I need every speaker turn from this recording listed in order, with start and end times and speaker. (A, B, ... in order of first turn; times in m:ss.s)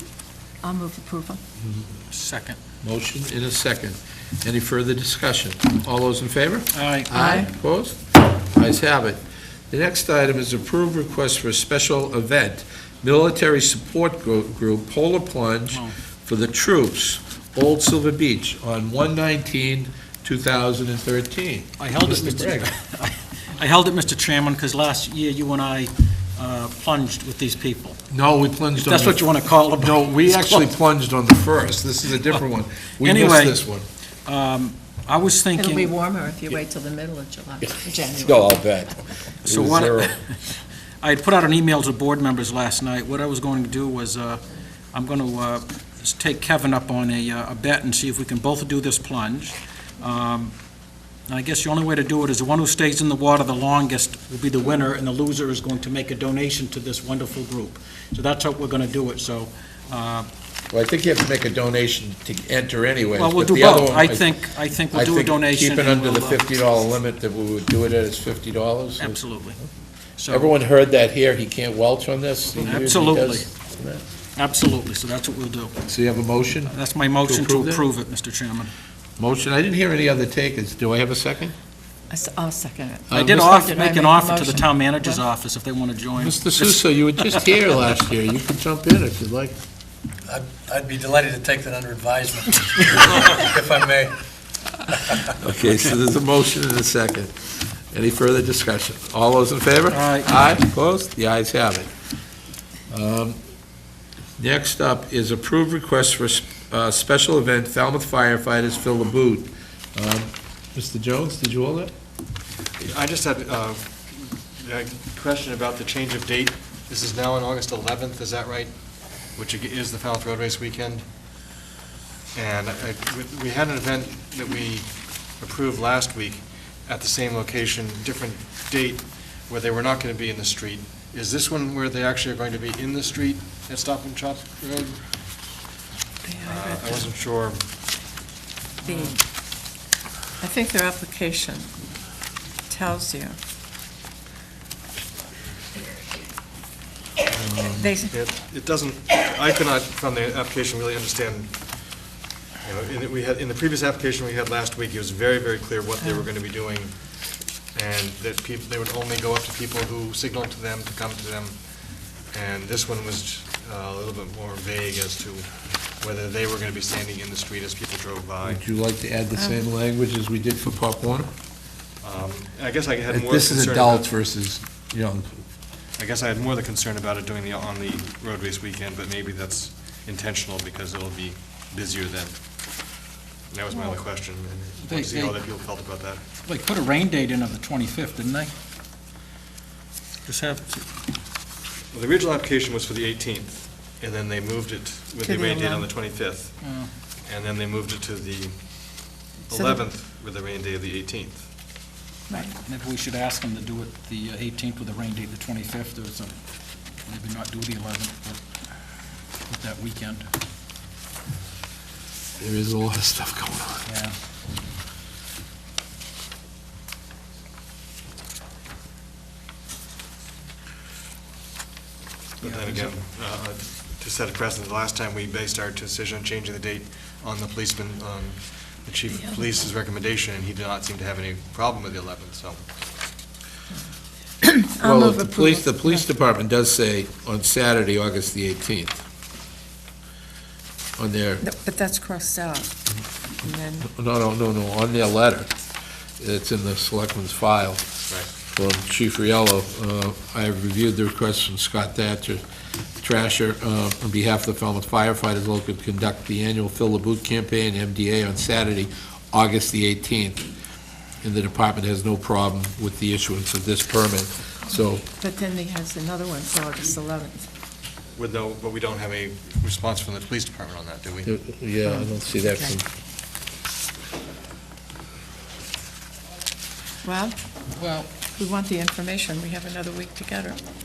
0:00.6-0:01.4 A
0:02.1-0:02.6 B
0:02.8-0:22.7 C
0:06.7-0:07.1 B
0:07.1-0:07.5 A
0:21.8-0:28.0 B
0:28.1-0:33.8 C
0:28.8-0:30.7 B
0:33.0-0:33.6 B
0:34.3-0:35.9 B
0:35.6-0:38.6 A
0:37.6-0:40.2 C
0:39.4-0:40.3 B
0:41.0-0:44.4 B
0:44.9-0:50.6 B
0:51.3-1:00.3 B
1:00.7-1:04.3 C
1:03.2-1:06.4 B
1:04.9-1:09.2 C
1:09.0-1:09.6 B
1:10.2-1:10.5 B
1:10.3-1:14.0 C
1:12.6-1:13.5 B
1:14.4-1:15.8 B
1:15.9-1:17.9 C
1:16.7-1:18.7 B
1:19.2-1:21.5 C
1:22.1-1:25.2 A
1:23.1-1:23.5 C
1:23.1-1:27.5 B
1:26.2-1:29.6 C
1:30.3-1:34.1 D
1:35.3-1:41.9 C
1:39.9-1:40.3 B
1:42.9-1:43.4 C
1:44.4-1:51.9 C
1:52.8-2:01.0 E
2:02.3-2:15.2 E
2:16.2-2:17.1 A
2:16.4-2:17.6 E
2:18.8-2:19.2 A
2:20.4-2:21.7 A
2:22.7-2:23.4 A
2:27.4-2:27.9 C
2:27.7-2:28.1 A
2:28.1-2:32.0 E
2:32.6-2:48.6 E
2:48.5-2:51.3 C
2:49.4-2:49.6 A
2:52.0-2:54.1 E
2:53.1-2:55.4 C
2:56.0-3:02.8 E
3:03.5-3:06.2 E
3:04.9-3:05.4 B
3:06.5-3:08.5 B
3:10.3-3:10.8 B
3:11.9-3:21.5 E
3:15.2-3:15.9 A
3:16.6-3:16.9 B
3:19.5-3:19.8 A
3:22.3-3:22.5 A
3:22.6-3:26.4 B
3:27.0-3:28.4 B
3:29.5-3:30.3 B
3:32.4-3:33.9 C
3:33.9-3:34.1 B
3:42.4-3:52.7 E
3:42.4-3:42.9 B
3:54.4-3:56.1 A
3:54.8-3:59.0 C
4:01.0-4:01.4 C
4:01.4-4:02.8 A
4:03.4-4:03.9 A
4:03.9-4:05.5 C
4:06.2-4:12.4 C
4:13.0-4:20.5 C
4:21.2-4:25.0 C
4:25.1-4:27.5 A
4:28.2-4:31.3 E
4:31.2-4:32.8 C
4:31.8-4:32.8 A
4:37.0-4:37.4 A
4:37.8-4:38.1 B
4:38.2-4:40.6 A